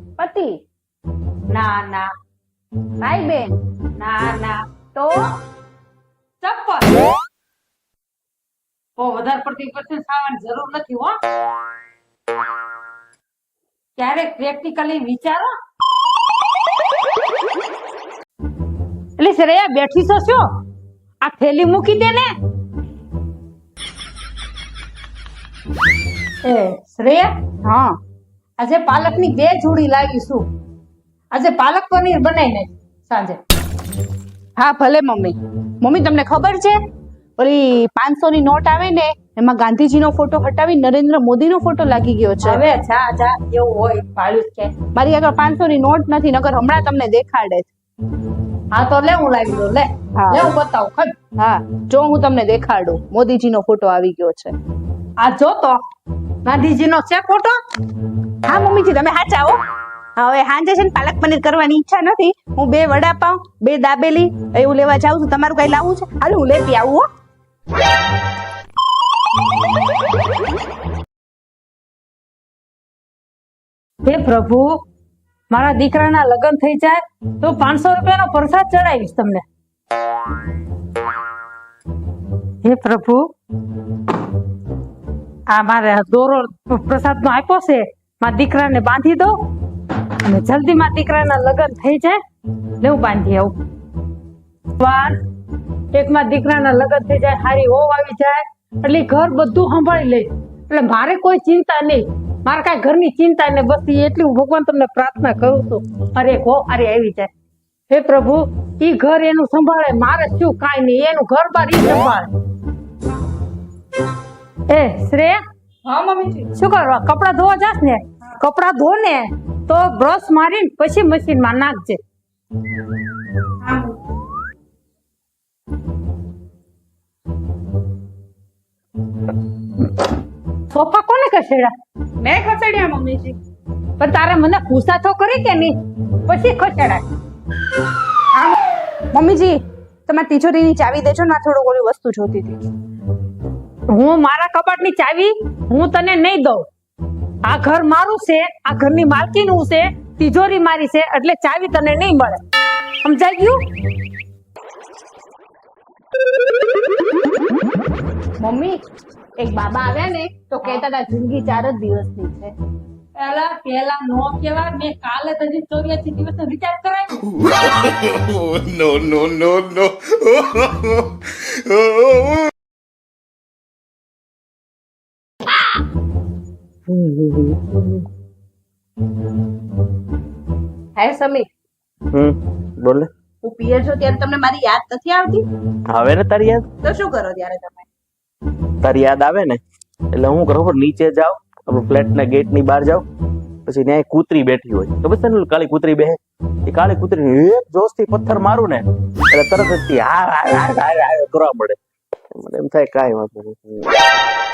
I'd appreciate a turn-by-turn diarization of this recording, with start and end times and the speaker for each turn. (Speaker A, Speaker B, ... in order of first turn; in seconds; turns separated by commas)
Speaker A: 0.2-0.6, Speaker B: 1.5-2.1, Speaker A: 3.0-3.6, Speaker B: 4.0-4.6, Speaker A: 4.9-5.3, Speaker B: 6.4-7.0, Speaker B: 9.0-11.2, Speaker B: 14.0-15.5, Speaker B: 19.2-20.4, Speaker B: 21.2-22.4, Speaker B: 26.4-27.3, Speaker A: 27.6-28.0, Speaker B: 28.6-30.4, Speaker B: 31.3-33.4, Speaker A: 34.6-36.8, Speaker A: 37.4-42.6, Speaker B: 42.4-44.7, Speaker A: 44.9-47.7, Speaker B: 48.7-51.1, Speaker A: 50.1-50.5, Speaker A: 51.4-54.5, Speaker B: 55.2-55.8, Speaker B: 56.4-57.6, Speaker A: 58.4-59.6, Speaker A: 60.1-67.1, Speaker B: 74.0-74.8, Speaker B: 75.5-79.4, Speaker B: 82.6-83.3, Speaker B: 85.5-89.4, Speaker B: 90.2-92.2, Speaker B: 92.8-93.5, Speaker B: 94.8-95.2, Speaker B: 95.9-107.3, Speaker B: 107.9-112.3, Speaker B: 114.7-115.4, Speaker A: 115.8-116.5, Speaker B: 116.5-122.0, Speaker A: 123.6-124.0, Speaker B: 130.7-131.7, Speaker A: 132.2-133.4, Speaker B: 134.0-135.7, Speaker B: 136.2-137.1, Speaker A: 139.1-142.6, Speaker B: 143.9-146.7, Speaker B: 147.4-152.4, Speaker B: 153.0-153.6, Speaker A: 158.4-158.8, Speaker A: 159.4-162.6, Speaker B: 163.2-167.2, Speaker C: 167.3-172.5, Speaker D: 177.2-177.7, Speaker A: 180.9-181.5, Speaker D: 182.1-183.1, Speaker A: 183.4-185.4, Speaker D: 185.9-186.6, Speaker A: 186.8-187.9, Speaker D: 188.8-189.6, Speaker D: 190.1-193.0, Speaker D: 193.7-201.8, Speaker D: 202.3-203.9